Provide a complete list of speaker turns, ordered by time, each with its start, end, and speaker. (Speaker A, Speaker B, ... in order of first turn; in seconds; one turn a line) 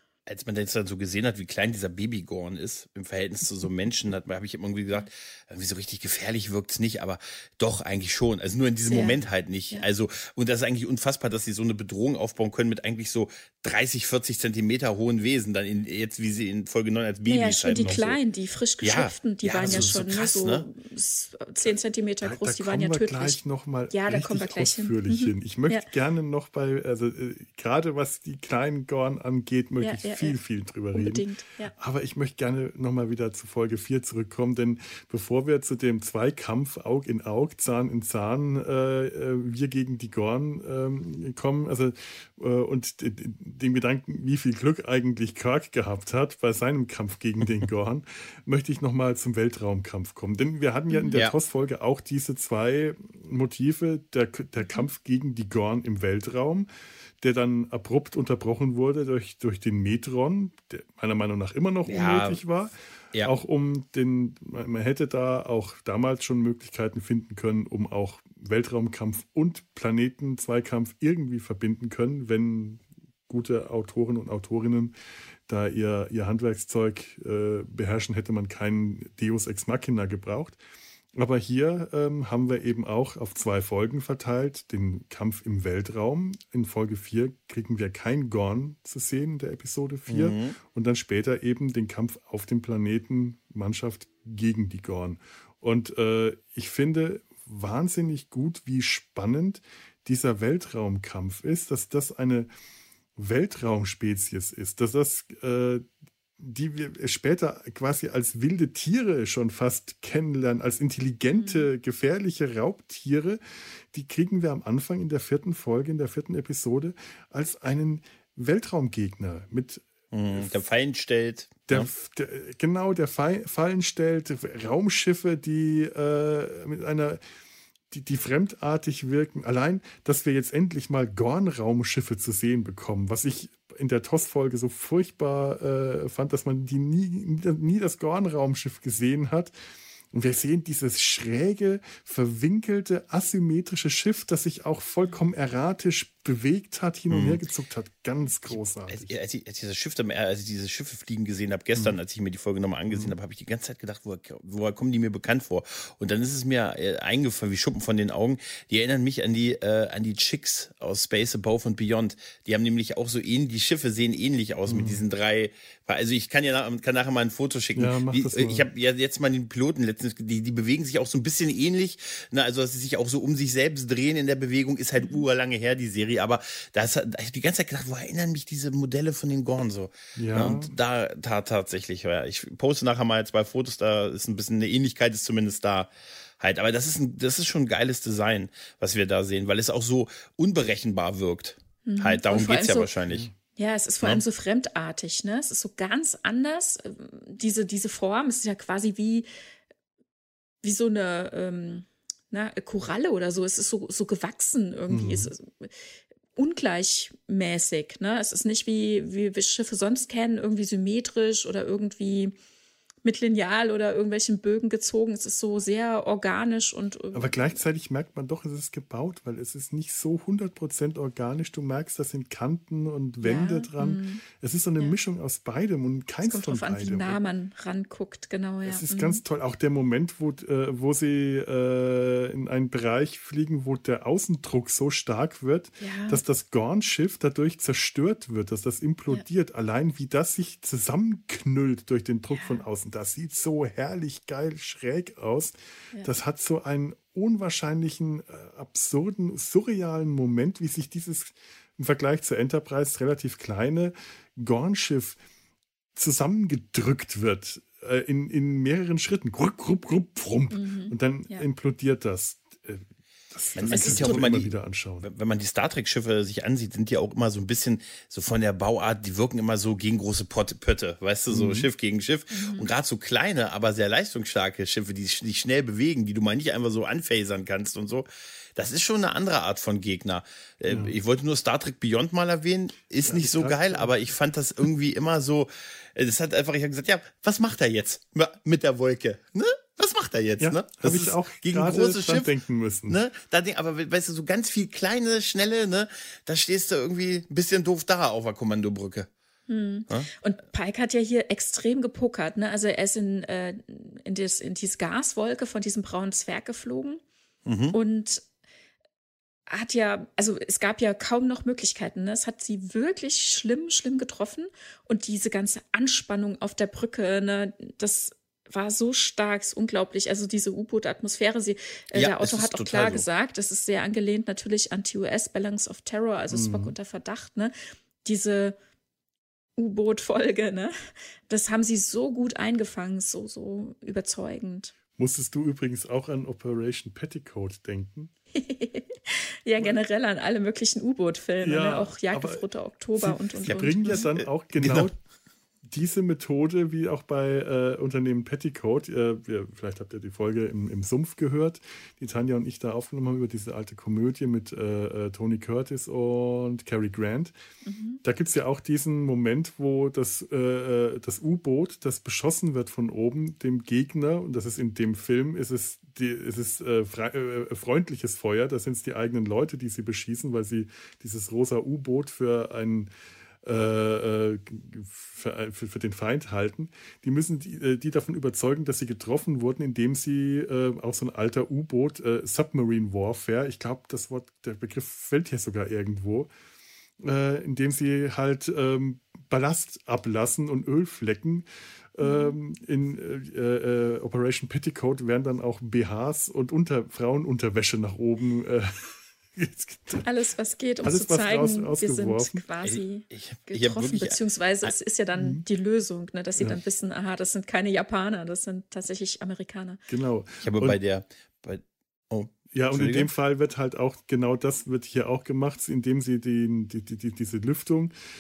Speaker A: 0.3-18.2
Speaker B: 8.9-9.2
Speaker B: 17.3-23.4
Speaker C: 17.8-18.0
Speaker A: 18.8-20.7
Speaker C: 19.6-20.0
Speaker C: 22.2-31.2
Speaker B: 23.9-25.8
Speaker B: 29.8-30.4
Speaker B: 30.9-31.7
Speaker C: 31.8-56.7
Speaker B: 50.9-51.2
Speaker C: 57.2-74.9
Speaker A: 61.9-62.4
Speaker C: 75.5-80.6
Speaker C: 81.2-102.5
Speaker A: 90.1-90.6
Speaker C: 103.2-105.9
Speaker C: 106.4-120.6
Speaker B: 111.4-111.7
Speaker A: 120.1-121.9
Speaker C: 121.7-127.2
Speaker C: 127.9-139.5
Speaker C: 140.1-149.1
Speaker A: 147.1-147.4
Speaker A: 148.5-193.3
Speaker C: 152.9-153.2
Speaker C: 164.7-165.0
Speaker C: 167.8-168.6
Speaker C: 180.2-180.7
Speaker B: 191.8-192.9
Speaker C: 193.1-193.3
Speaker B: 193.6-199.3
Speaker B: 200.6-205.7
Speaker C: 204.9-205.3
Speaker B: 206.4-212.3
Speaker B: 213.0-217.6
Speaker C: 217.1-227.2
Speaker B: 223.2-224.2
Speaker B: 226.2-229.2
Speaker C: 228.7-255.2
Speaker B: 235.8-236.2
Speaker B: 242.3-242.6
Speaker C: 255.9-265.1
Speaker B: 260.5-261.4
Speaker A: 263.6-292.3
Speaker B: 263.7-264.2
Speaker C: 271.3-271.7
Speaker B: 272.3-272.7
Speaker C: 280.7-280.9
Speaker C: 283.1-283.9
Speaker C: 290.4-293.0
Speaker A: 292.9-299.1
Speaker B: 299.5-307.0
Speaker A: 307.5-307.8
Speaker B: 307.7-308.2
Speaker B: 309.5-328.6
Speaker A: 321.9-323.1
Speaker C: 326.3-326.7
Speaker B: 329.6-330.7
Speaker B: 331.3-334.7
Speaker C: 335.0-338.1
Speaker B: 338.4-344.1
Speaker C: 341.4-342.4
Speaker C: 343.0-345.0
Speaker A: 343.5-344.9
Speaker C: 345.7-357.3
Speaker B: 357.6-358.0
Speaker C: 358.0-372.9
Speaker C: 373.4-386.3
Speaker C: 387.0-391.4
Speaker C: 392.0-400.1
Speaker B: 392.0-392.4
Speaker B: 400.0-409.8
Speaker C: 400.8-402.4
Speaker A: 402.6-404.7
Speaker C: 405.1-405.4
Speaker C: 409.9-410.8
Speaker A: 410.4-413.1
Speaker C: 412.5-417.9